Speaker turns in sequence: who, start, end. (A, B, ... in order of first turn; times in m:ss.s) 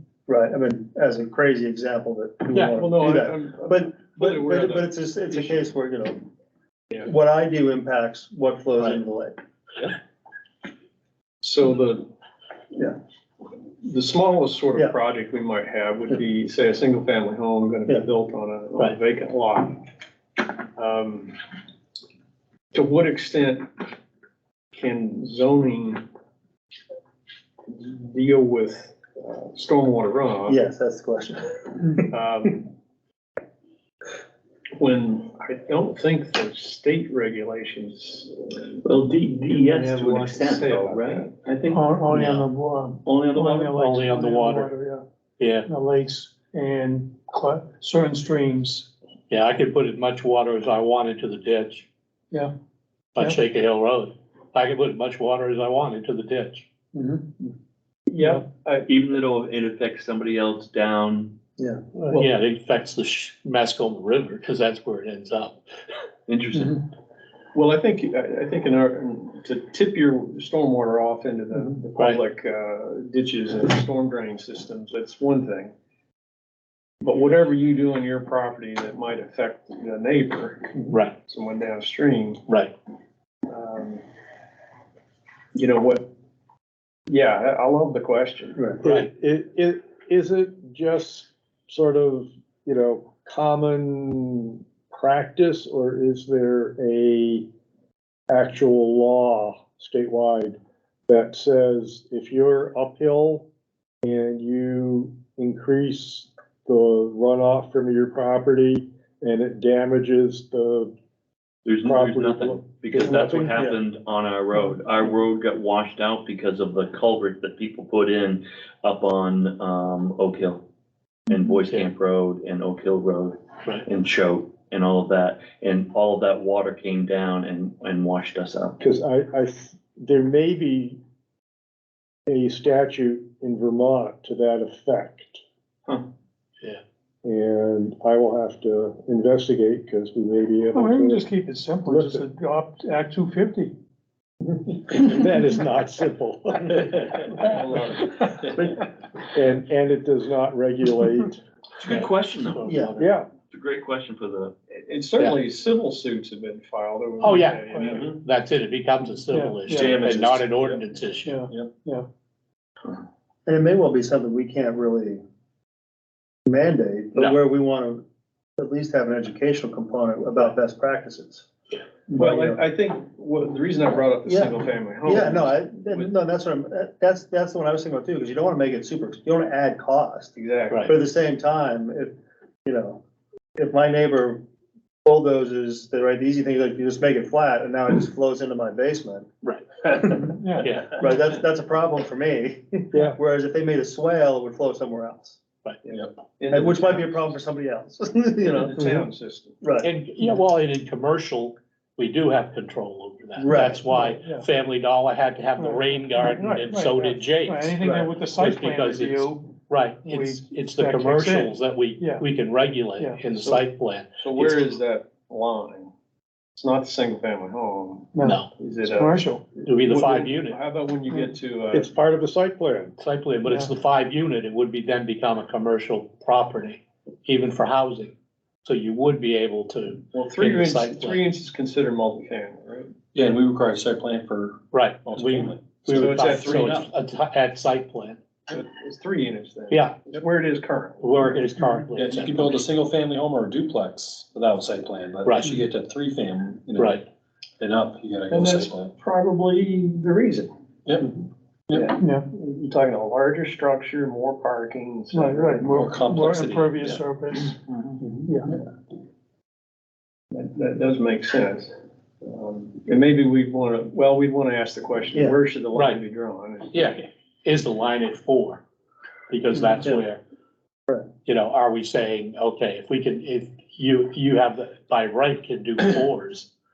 0:00.3-0:06.3 A
0:02.8-0:05.7 B
0:07.0-0:09.4 A
0:11.4-0:12.1 B
0:13.8-0:19.8 B
0:20.8-0:21.4 B
0:22.7-0:23.7 B
0:24.7-0:26.0 B
0:27.7-0:30.6 B
0:30.5-0:32.1 A
0:32.1-0:32.7 B
0:34.8-0:38.4 B
0:38.8-0:42.5 C
0:39.5-0:41.3 B
0:41.7-0:45.0 D
0:43.0-0:43.8 C
0:43.7-0:44.7 E
0:45.4-0:45.7 E
0:45.7-0:48.9 D
0:49.3-0:51.9 E
0:53.1-0:56.7 E
0:57.0-0:57.2 D
0:58.1-0:58.9 B
0:58.9-1:01.4 C
1:01.6-1:01.8 A
1:02.1-1:05.6 E
1:06.3-1:06.8 C
1:07.5-1:15.7 B
1:17.0-1:22.4 B
1:20.9-1:21.2 E
1:22.5-1:22.7 E
1:23.5-1:24.0 B
1:25.5-1:26.1 B
1:27.1-1:28.7 B
1:28.8-1:37.5 F
1:38.3-1:43.5 F
1:44.0-1:50.9 F
1:51.6-2:00.7 C
1:51.8-1:53.7 F
2:01.3-2:08.8 C
2:01.6-2:01.9 E
2:08.8-2:11.0 F
2:12.3-2:15.4 F
2:17.2-2:21.3 F
2:20.7-2:23.7 D
2:21.9-2:22.3 F
2:24.9-2:27.5 F
2:27.3-2:28.6 B
2:29.3-2:31.4 F
2:31.8-2:32.8 C
2:31.9-2:33.1 E
2:32.6-2:33.0 A
2:33.0-2:33.3 F
2:33.5-2:34.5 C
2:34.7-2:38.2 B
2:37.2-2:41.3 E
2:37.7-2:38.0 D
2:37.8-2:38.2 C
2:39.3-2:40.0 D
2:39.7-2:40.8 G
2:39.8-2:40.4 C
2:41.2-2:42.1 D
2:43.5-2:45.2 A
2:46.5-2:48.0 A
2:48.6-2:51.5 A
2:52.1-2:52.6 A
2:52.2-2:56.1 B
2:54.2-3:02.1 A
3:00.4-3:01.0 B
3:02.6-3:03.0 A
3:03.6-3:04.4 A
3:05.0-3:09.3 A
3:09.4-3:11.0 E
3:09.9-3:10.4 A
3:10.3-3:10.7 D
3:11.0-3:15.4 A
3:12.9-3:13.2 F
3:15.8-3:17.4 B
3:16.5-3:18.8 A
3:18.4-3:19.6 B
3:19.6-3:19.9 A
3:19.8-3:34.7 E
3:23.4-3:23.9 A
3:24.0-3:24.5 D
3:25.6-3:32.3 D
3:27.8-3:28.1 A
3:33.4-3:33.7 B
3:34.2-3:35.9 B
3:36.6-3:41.9 B
3:38.2-3:39.6 D
3:38.2-3:38.5 E
3:39.6-3:40.6 E
3:41.7-3:43.0 F
3:43.0-3:51.2 E
3:50.1-3:53.0 B
3:53.1-3:56.8 G
3:54.7-3:58.2 E
3:55.9-3:56.9 B
3:58.5-4:01.0 B
3:59.7-4:00.0 E
4:01.0-4:02.6 E
4:02.0-4:07.0 G
4:05.2-4:05.6 E
4:06.8-4:07.0 E
4:07.6-4:08.9 G
4:08.3-4:10.5 B
4:10.9-4:11.2 G
4:11.7-4:15.7 B
4:12.0-4:12.3 D
4:15.1-4:17.6 D
4:15.7-4:17.0 G
4:18.0-4:18.5 B
4:18.3-4:18.6 D
4:20.3-4:21.7 B
4:22.2-4:26.9 B
4:25.1-4:25.4 A
4:25.7-4:26.0 E
4:26.7-4:28.6 E
4:29.3-4:30.2 E
4:29.8-4:30.0 A
4:31.3-4:36.5 E